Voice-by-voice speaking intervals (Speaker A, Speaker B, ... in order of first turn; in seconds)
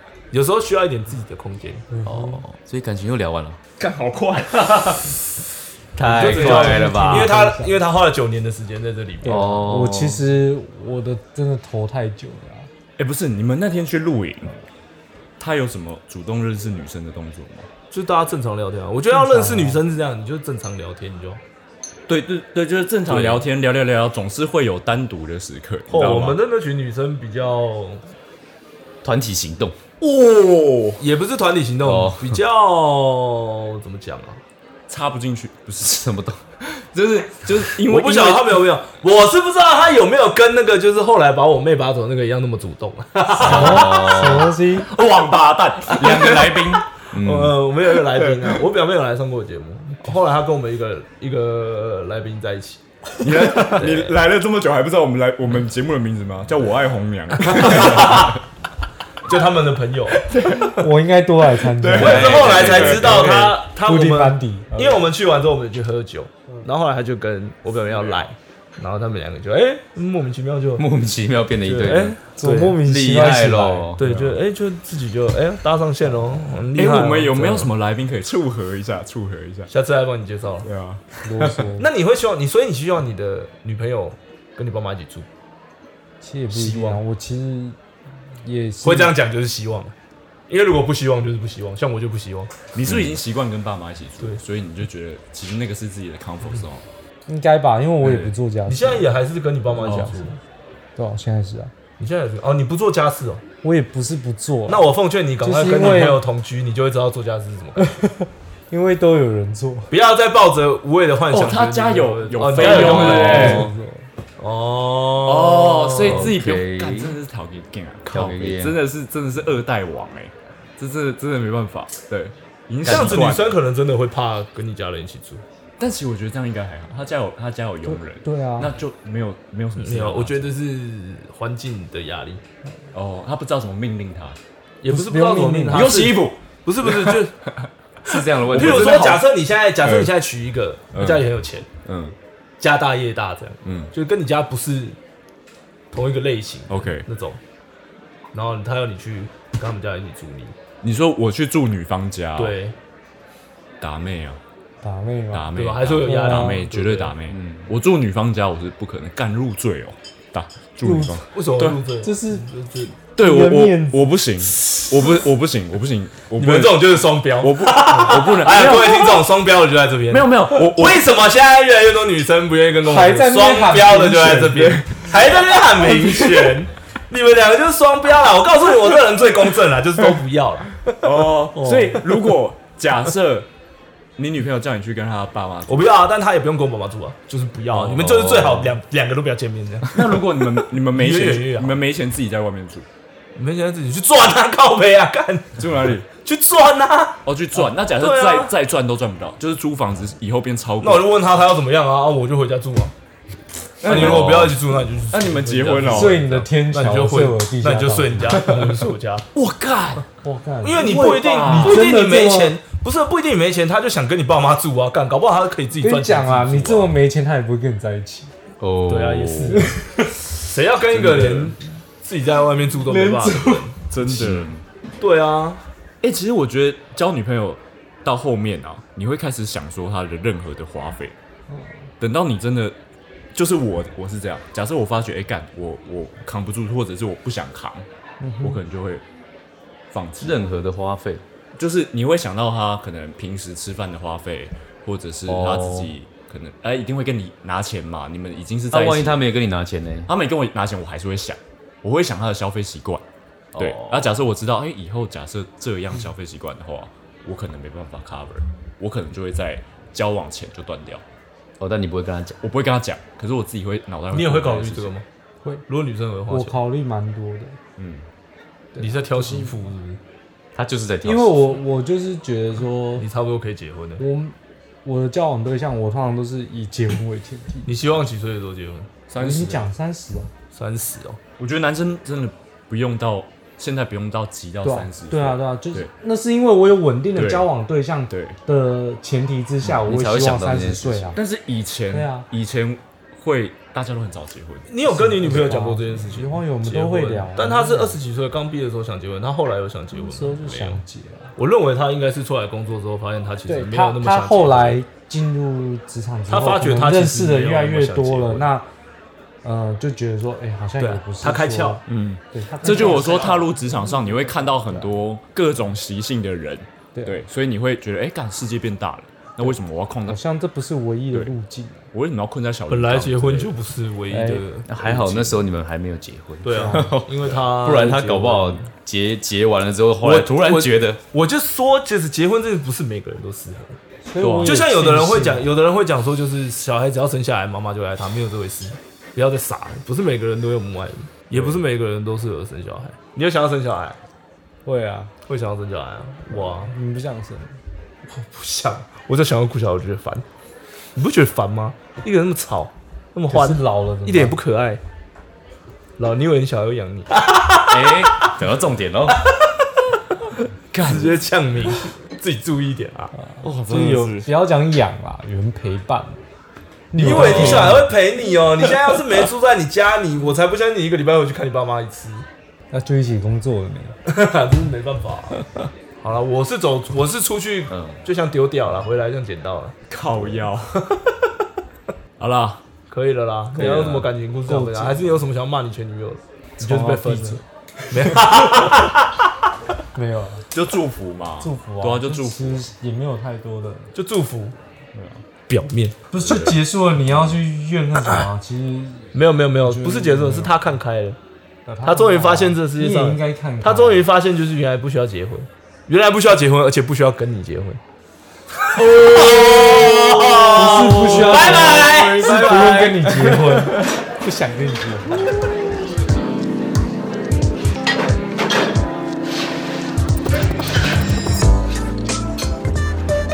Speaker A: 0.3-1.9, 6.0-9.6, 17.9-21.4, 23.1-23.5, 25.9-28.0, 31.0-34.4, 37.8-44.0, 47.1-52.8, 53.5-54.1, 57.4-58.4, 59.3-60.7, 61.9-70.8, 71.6-72.8, 74.0-77.7, 79.7-80.7, 81.8-85.3, 86.5-87.0, 88.8-89.9, 90.5-92.5, 98.7-100.4, 102.0-103.4, 104.7-107.8, 109.9-113.7, 114.4-116.3, 122.8-125.4, 129.8-132.4, 134.8-137.3, 138.3-141.7, 142.6-145.0, 145.9-147.4, 148.3-150.5, 152.4-152.7, 155.5-157.1, 161.3-162.9, 166.3-182.3, 185.7-190.2, 190.8-191.8, 193.3-195.6, 196.2-198.5, 200.8-202.9, 203.8-209.2, 210.6-216.9, 218.9-219.7, 220.4-223.8, 225.0-225.6, 264.1-265.0, 265.7-266.6, 268.8-270.0, 273.0-274.0, 277.6-278.9, 280.5-281.2, 294.7-300.8, 301.4-304.8, 306.3-308.4, 310.8-311.8, 312.6-313.5, 322.7-325.4, 326.4-328.7, 330.0-333.8, 334.4-344.0, 345.3-346.7, 348.1-350.2, 350.9-354.8, 356.0-358.3, 360.8-363.1, 366.9-372.2, 374.1-375.4, 376.0-380.2, 382.9-389.1, 393.9-394.5, 395.5-395.9, 399.1-401.2, 401.8-407.8, 408.7-413.0
Speaker B: 2.0-2.4, 6.2-7.8, 9.2-12.7, 19.1-19.8, 43.3-44.9, 60.6-65.0, 72.3-73.9, 81.2-81.9, 86.2-87.8, 88.4-89.1, 97.3-99.0, 101.0-101.7, 103.6-104.9, 105.4-106.2, 107.8-109.9, 112.6-114.0, 128.2-128.7, 134.9-136.0, 154.8-156.7, 160.8-161.2, 162.0-162.5, 163.2-164.0, 172.8-174.8, 175.8-176.4, 205.9-208.8, 210.2-212.6, 215.8-218.3, 219.5-220.2, 222.9-223.7, 238.2-238.6, 266.3-267.6, 268.8-269.5, 271.0-273.0, 274.0-277.7, 279.2-280.3, 284.6-291.2, 291.9-292.2, 294.9-298.0, 300.0-301.3, 303.5-308.6, 309.4-315.0, 320.1-321.9, 324.1-324.4, 326.5-327.0, 334.1-335.5, 344.6-345.1, 346.3-347.5, 353.3-354.4, 363.2-366.2, 366.9-367.9, 372.7-373.9, 383.6-385.2, 386.6-388.4, 389.9-390.4, 391.4-393.9, 396.1-400.5, 401.7-404.1, 410.5-415.2
Speaker C: 2.0-3.6, 6.0-7.3, 9.2-10.2, 29.0-29.7, 31.8-32.4, 35.8-36.4, 43.3-44.5, 45.9-47.6, 62.0-63.3, 70.8-72.2, 72.8-74.0, 112.7-113.7, 116.0-117.2, 118.1-118.8, 122.9-123.2, 138.1-139.2, 188.0-188.7, 203.9-204.5, 218.6-219.7, 224.2-224.5, 240.2-241.2, 245.3-245.9, 248.7-250.1, 253.5-254.1, 261.6-262.4, 270.5-271.5, 289.6-291.1, 324.7-331.0, 357.7-359.2, 411.3-413.5
Speaker D: 3.8-5.1, 13.0-14.5, 15.4-17.7, 22.1-26.4, 30.0-31.0, 34.9-36.0, 36.6-38.6, 44.8-46.8, 48.0-48.6, 53.2-58.4, 60.2-60.8, 61.8-63.5, 67.9-68.2, 74.0-74.4, 76.7-79.7, 80.6-81.6, 92.7-96.8, 98.0-98.3, 99.8-100.1, 111.3-113.7, 115.2-123.6, 125.8-130.5, 132.9-134.4, 135.7-137.3, 138.1-139.2, 139.8-140.1, 140.9-141.3, 141.8-142.1, 143.6-143.9, 146.7-147.1, 150.8-152.6, 153.8-154.4, 155.3-161.8, 163.2-169.3, 170.1-171.1, 174.6-175.0, 180.8-183.5, 184.2-185.9, 187.7-188.2, 189.9-192.8, 195.6-196.1, 197.2-201.1, 203.8-206.4, 209.3-210.0, 210.7-211.9, 220.9-221.6, 223.9-224.6, 226.0-231.1, 232.0-232.7, 233.3-237.8, 238.4-239.0, 239.9-240.4, 241.6-249.2, 250.1-253.0, 253.6-261.0, 262.4-264.9, 267.8-268.0, 279.1-279.7, 281.4-285.9, 287.1-287.5, 288.1-288.4, 291.1-295.6, 311.9-320.2, 321.9-323.5, 334.2-334.6, 360.7-361.2, 363.4-364.3, 367.1-367.8, 379.9-380.9, 382.2-382.6, 383.5-384.1, 390.5-392.7, 396.2-396.6